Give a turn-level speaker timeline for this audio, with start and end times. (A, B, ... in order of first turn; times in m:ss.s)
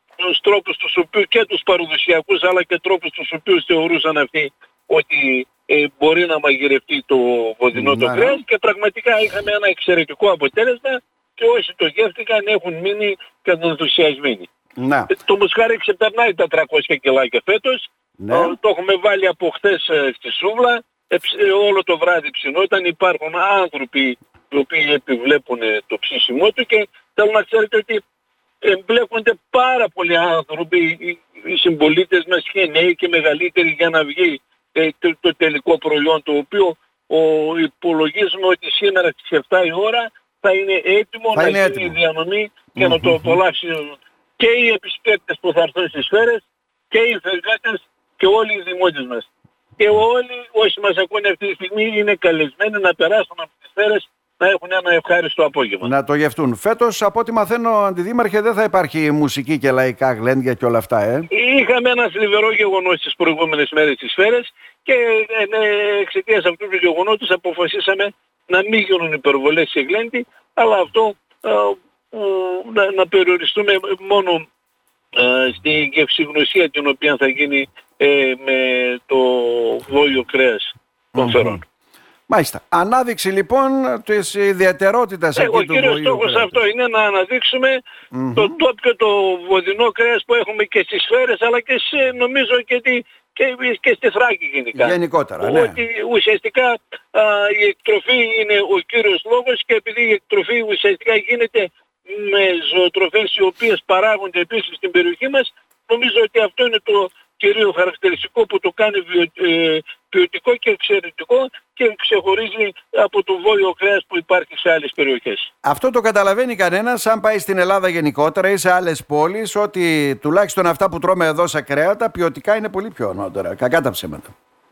0:00.2-0:14.5 A
0:07.7-0:08.4 B
0:14.8-0:15.1 B
0:15.1-0:28.0 A
0:18.2-0:18.6 B
0:28.6-0:55.9 A
0:41.3-0:42.0 B
0:42.8-0:43.4 B
0:55.8-1:01.3 B
1:01.3-1:14.4 A
1:15.1-1:21.6 A
1:21.1-1:21.6 B
1:22.3-1:26.6 B
1:25.4-1:27.8 A
1:28.1-1:28.6 B
1:28.3-1:55.5 A
1:34.7-1:35.8 B
1:55.6-2:04.3 B